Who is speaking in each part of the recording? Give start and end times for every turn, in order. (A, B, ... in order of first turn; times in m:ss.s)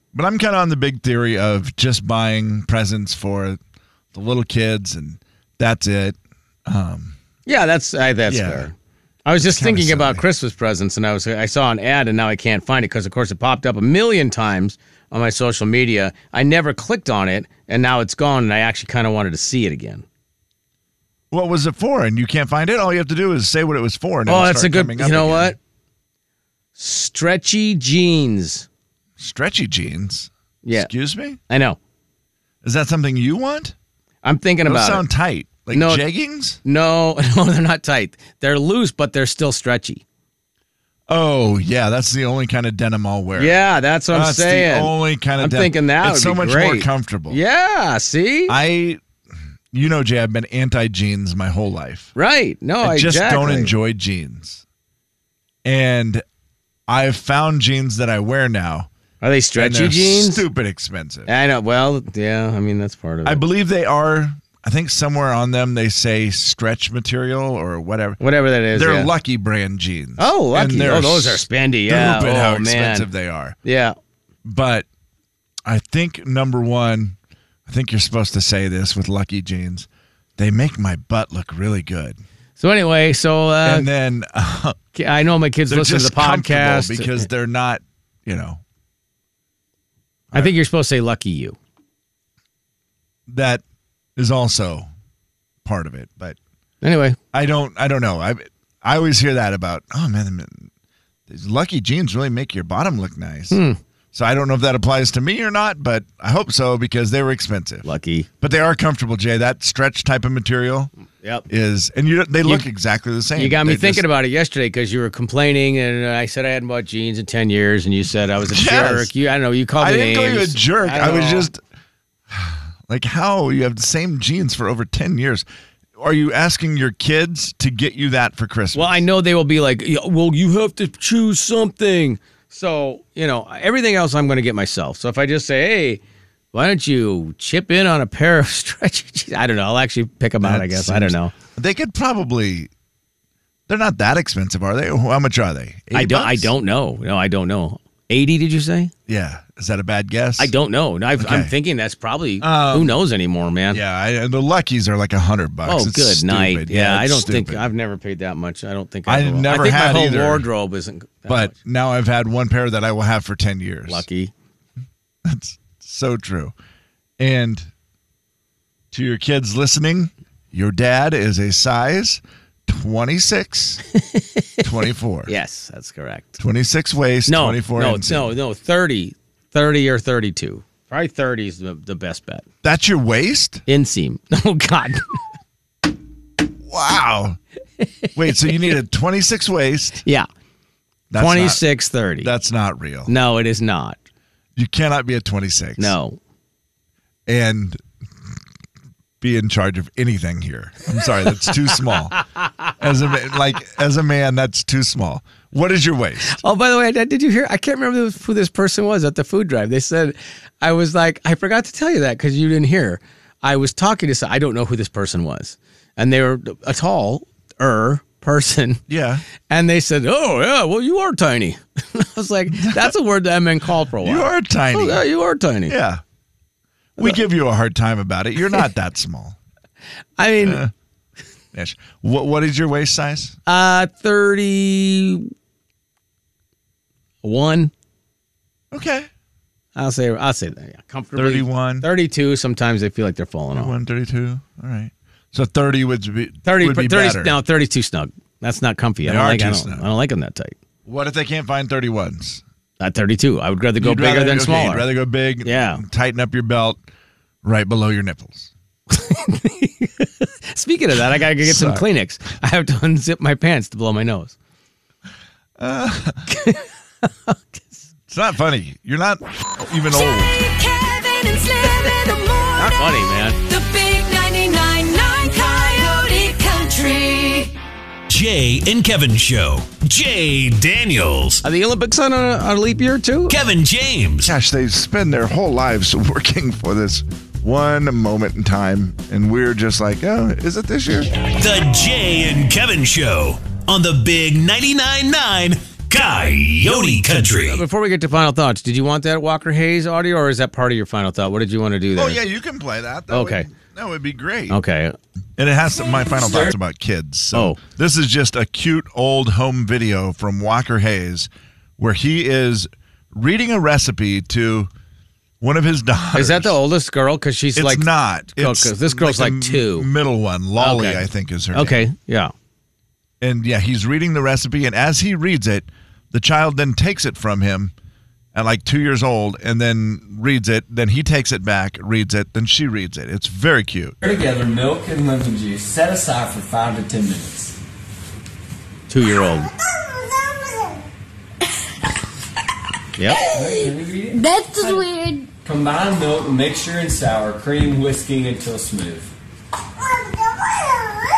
0:00.1-0:03.6 A
0:04.1-0:07.2 A
0:07.4-0:08.7 B
0:08.3-0:08.7 A
0:09.2-0:20.0 B
0:09.4-0:10.2 A
0:21.3-0:25.6 A
0:24.2-0:25.6 B
0:26.8-0:28.7 B
0:29.2-0:31.4 A
0:30.6-0:30.9 B
0:31.5-0:31.8 B
0:32.6-0:33.7 A
0:34.2-0:35.0 B
0:34.6-0:36.6 A
0:35.7-0:36.0 B
0:36.6-0:40.0 B
0:41.1-0:43.6 A
0:43.4-0:48.5 B
0:44.1-0:47.4 A
0:48.5-0:49.0 A
0:49.7-0:52.1 A
0:52.1-0:53.7 B
0:52.8-0:54.6 A
0:55.6-0:56.2 A
0:56.9-0:58.9 A
0:59.2-1:00.4 B
0:59.6-1:01.3 A
1:01.3-1:03.4 B
1:03.2-1:08.2 A
1:08.2-1:09.1 B
1:08.7-1:13.6 A
1:10.2-1:13.1 B
1:13.6-1:13.9 B
1:14.4-1:14.8 A
1:15.6-1:17.2 A
1:17.7-1:22.2 A
1:22.6-1:23.9 B
1:23.6-1:24.8 A
1:24.9-1:27.2 B
1:25.7-1:28.6 A
1:30.3-1:31.6 B
1:33.3-1:33.6 A
1:34.2-1:34.9 A
1:35.6-1:36.4 A
1:36.8-1:37.2 B
1:37.3-1:40.7 A
1:41.3-1:43.6 A
1:43.5-1:43.8 B
1:44.1-1:47.9 A
1:47.8-1:48.3 B
1:48.4-1:50.9 A
1:51.5-1:54.0 A
1:53.4-2:01.5 B
1:58.4-1:59.1 A
1:59.8-2:01.6 A
2:02.3-2:05.4 A
2:06.0-2:09.0 A
2:08.7-2:16.0 B
2:16.5-2:21.3 B
2:20.4-2:22.7 A
2:23.7-2:26.5 A
2:25.9-2:28.9 B
2:29.1-2:30.5 A
2:30.4-2:33.8 B
2:31.2-2:31.5 A
2:32.4-2:33.0 A
2:33.7-2:37.7 A
2:35.6-2:41.5 B
2:39.0-2:40.5 A
2:41.3-2:44.0 A
2:43.9-2:44.3 B
2:45.2-2:46.5 A
2:47.2-2:47.7 A
2:48.9-2:53.8 A
2:54.0-2:54.6 B
2:54.6-2:55.3 A
2:55.3-2:56.4 B
2:56.4-2:58.3 A
2:57.3-3:02.4 B
3:02.6-3:03.6 A
3:03.7-3:05.2 B
3:06.6-3:07.4 A
3:08.1-3:10.0 A
3:11.1-3:11.6 A
3:11.1-3:12.3 B
3:12.2-3:13.1 A
3:13.1-3:14.0 B
3:14.6-3:15.9 A
3:15.8-3:16.2 B
3:17.3-3:17.8 A
3:19.2-3:22.2 A
3:22.8-3:26.4 A
3:26.2-3:38.8 B
3:38.9-3:39.2 A
3:39.5-3:45.8 B
3:42.5-3:42.9 A
3:44.0-3:45.0 A
3:45.7-3:46.0 A
3:47.0-3:49.4 A
3:50.2-3:50.6 B
3:50.4-3:50.7 A
3:51.5-3:53.4 A
3:53.4-3:55.3 B
3:57.2-3:57.7 B
3:58.7-3:59.1 A
3:59.8-4:03.7 B
4:01.2-4:01.9 A
4:03.5-4:07.4 A
4:06.4-4:10.5 B
4:09.0-4:09.8 A
4:10.8-4:12.4 A
4:12.8-4:14.9 B
4:13.8-4:16.8 A
4:15.4-4:15.8 B
4:17.4-4:18.5 A
4:18.9-4:24.3 B
4:21.4-4:21.8 A
4:25.6-4:26.2 A
4:26.3-4:27.9 B
4:28.1-4:30.4 A
4:29.9-4:37.5 C
4:32.6-4:33.4 B
4:38.1-4:41.4 D
4:41.4-4:43.3 B
4:43.3-4:44.3 D
4:44.2-4:51.1 A
4:51.2-4:57.6 D
4:57.4-5:02.2 B
5:01.9-5:04.6 A
5:03.1-5:03.5 B
5:04.5-5:05.0 B
5:05.4-5:14.7 A
5:06.2-5:06.5 E
5:07.3-5:07.6 B
5:15.4-5:16.6 A
5:16.1-5:19.9 B
5:17.5-5:21.8 A
5:20.6-5:22.3 B
5:23.2-5:27.7 A
5:28.3-5:34.0 A
5:34.0-5:37.6 E
5:38.9-5:39.5 B
5:43.0-5:43.3 B
5:43.2-5:49.1 E